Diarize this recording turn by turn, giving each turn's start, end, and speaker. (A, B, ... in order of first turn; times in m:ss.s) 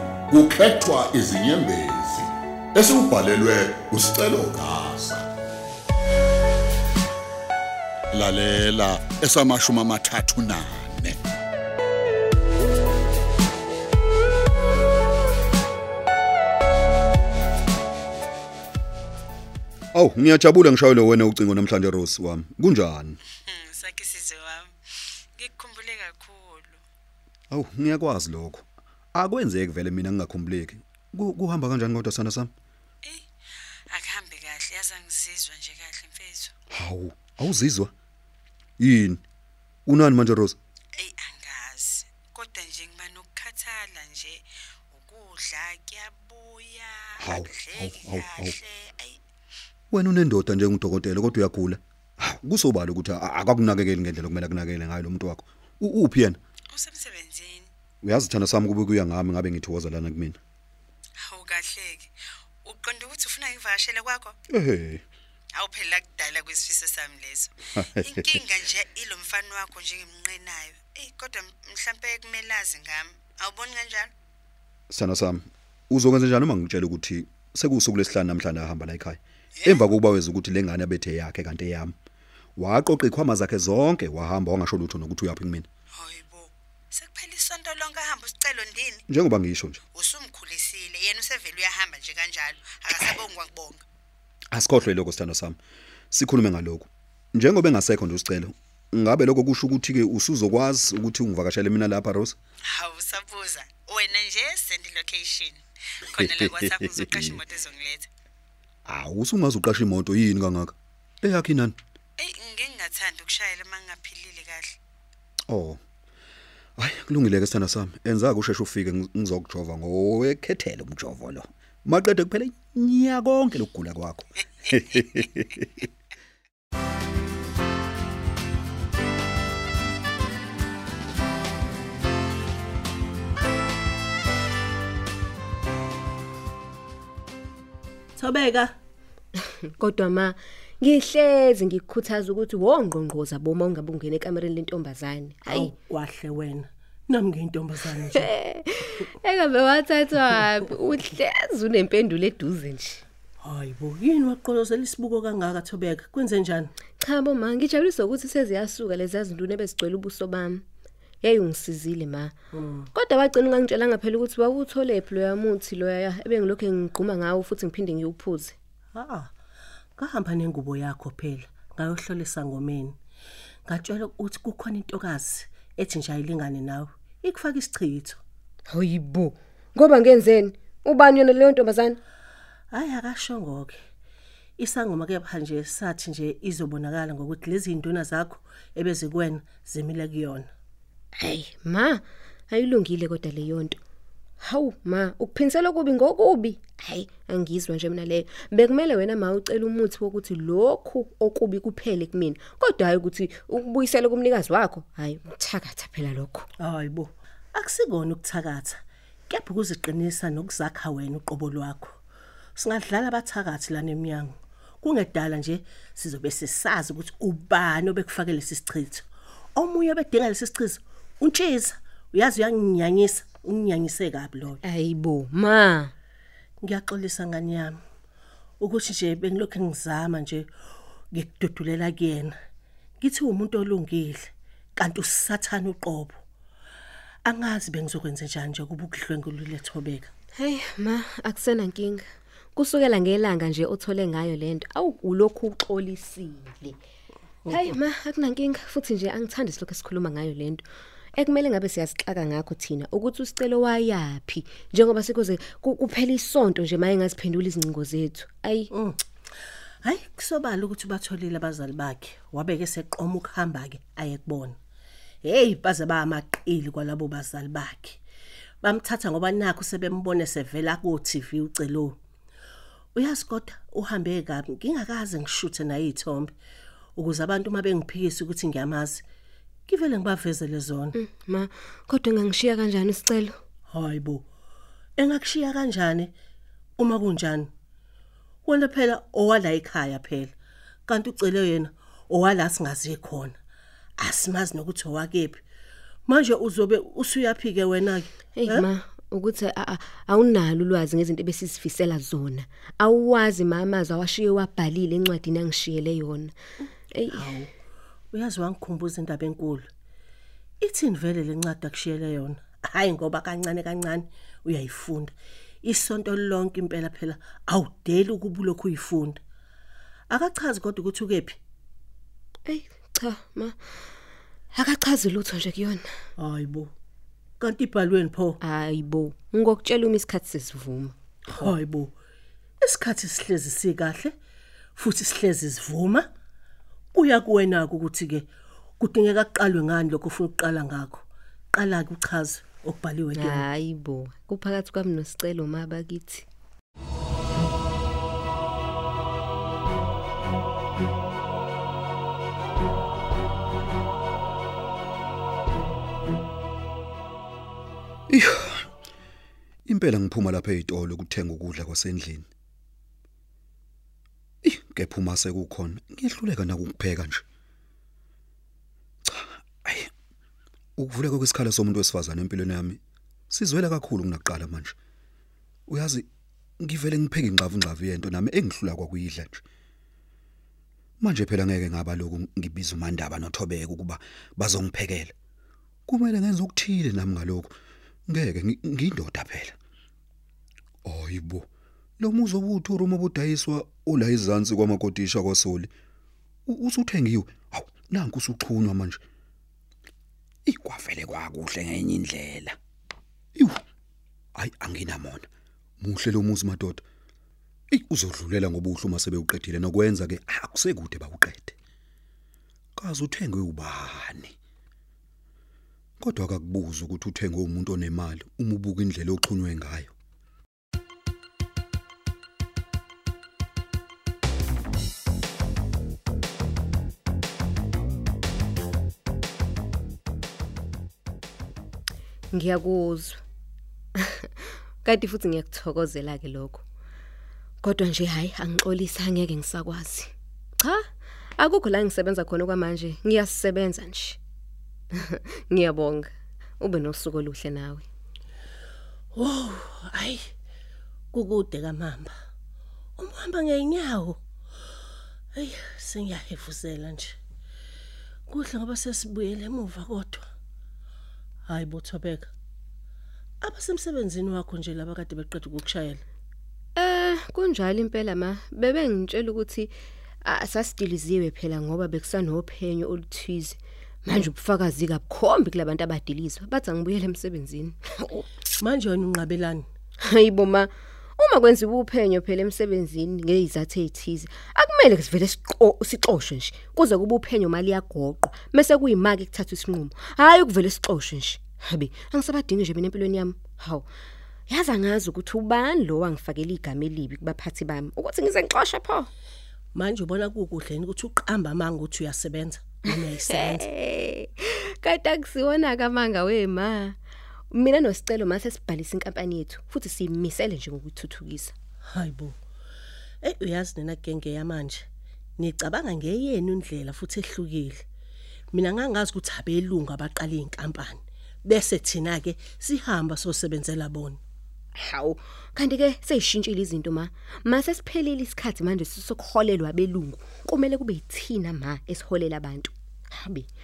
0:00.6-0:02.2 A
0:01.3-0:01.7 B
0:02.9-0:03.4 A
0:04.7-0:05.2 A
0:08.2-0:08.8 B
0:09.7-0:10.8 B
0:19.9-0:23.2 B
0:23.4-0:24.8 C
0:25.4-0:26.8 C
0:27.5-0:32.5 B
0:33.9-0:36.5 C
0:36.7-0:37.9 B
0:38.8-0:39.2 B
0:39.9-0:40.6 B
0:41.0-0:49.2 C
0:47.2-0:48.6 B
0:49.9-0:56.4 B
0:56.7-0:57.7 C
0:58.0-1:00.4 B
1:01.2-1:02.1 C
1:02.6-1:04.4 C
1:04.5-1:05.0 B
1:05.5-1:14.1 C
1:08.0-1:08.3 B
1:14.9-1:22.0 B
1:22.6-1:25.7 B
1:26.0-1:29.0 C
1:29.1-1:29.8 B
1:29.9-1:33.8 C
1:33.0-1:33.3 B
1:34.5-1:35.6 B
1:36.1-1:42.4 B
1:42.7-1:48.1 C
1:46.1-1:47.4 B
1:48.9-1:51.8 B
1:52.2-1:54.8 C
1:55.5-1:55.8 B
1:56.8-2:05.9 B
2:18.2-2:18.7 D
2:19.4-2:25.7 E
2:25.4-2:28.3 D
2:28.2-2:33.0 E
2:33.4-2:36.7 D
2:37.0-2:40.6 E
2:41.2-2:42.4 E
2:42.5-2:42.9 D
2:42.9-2:48.6 E
2:48.9-2:49.3 D
2:50.0-2:53.0 D
2:53.7-2:58.2 D
2:58.7-3:02.0 E
3:02.7-3:03.8 D
3:04.6-3:10.5 D
3:11.2-3:13.8 E
3:14.4-3:26.5 E
3:26.6-3:32.0 D
3:32.6-3:44.6 D
3:44.6-3:45.9 E
3:46.6-3:47.8 D
3:48.6-3:50.5 D
3:51.1-3:52.4 D
3:53.0-3:56.2 D
3:57.3-4:00.1 D
4:00.4-4:02.0 E
4:02.6-4:06.8 E
4:07.5-4:18.7 E
4:19.8-4:24.6 D
4:25.2-4:28.0 D
4:28.6-4:32.0 D
4:33.0-4:36.3 D
4:37.0-4:39.0 D
4:39.7-4:41.0 D
4:41.0-4:43.4 E
4:43.7-4:44.3 D
4:45.0-4:46.1 D
4:46.8-4:47.5 D
4:48.5-4:50.3 D
4:50.9-4:53.4 D
4:54.0-4:55.4 D
4:56.1-4:58.7 D
4:58.4-5:06.4 E
5:06.9-5:07.3 E
5:07.1-5:07.5 D
5:08.1-5:09.7 D
5:10.6-5:19.2 D
5:20.1-5:21.4 D
5:22.5-5:23.8 E
5:24.5-5:25.9 E
5:26.2-5:26.7 D
5:27.4-5:28.4 D
5:28.4-5:31.5 E
5:31.3-5:31.9 D
5:32.6-5:34.1 D
5:34.8-5:36.1 D
5:36.9-5:38.3 D
5:38.8-5:41.0 D
5:41.6-5:43.4 D
5:43.2-5:46.3 E
5:58.1-5:58.7 B
5:59.7-6:02.3 B
6:04.4-6:07.2 B
6:09.1-6:09.9 B
6:10.8-6:12.8 B
6:13.3-6:14.8 B
6:15.7-6:16.1 B
6:16.6-6:19.4 B
6:21.0-6:25.1 B
6:25.9-6:27.5 B
6:28.1-6:29.6 B
6:30.8-6:31.5 B
6:32.0-6:35.7 B
6:36.5-6:39.0 B
6:40.5-6:42.6 B
6:43.4-6:43.6 B
6:44.4-6:45.3 B
6:45.8-6:46.8 B
6:47.7-6:51.6 B
6:52.8-6:54.4 B
6:56.0-6:59.9 B
7:12.3-7:13.2 E
7:14.0-7:16.6 E
7:17.6-7:24.2 E
7:24.9-7:27.9 E
7:29.2-7:30.3 D
7:31.1-7:32.2 D
7:33.0-7:34.2 D
7:35.4-7:37.2 D
7:38.3-7:40.2 D
7:41.5-7:42.3 D
7:43.4-7:46.0 D
7:46.8-7:58.3 E
7:58.6-7:59.6 D
8:00.0-8:13.9 E
8:14.5-8:19.1 E
8:19.7-8:23.7 D
8:23.2-8:27.0 E
8:27.5-8:31.5 E
8:31.9-8:32.4 D
8:33.2-8:34.9 D
8:35.4-8:37.8 D
8:38.5-8:44.2 D
8:44.8-8:53.5 E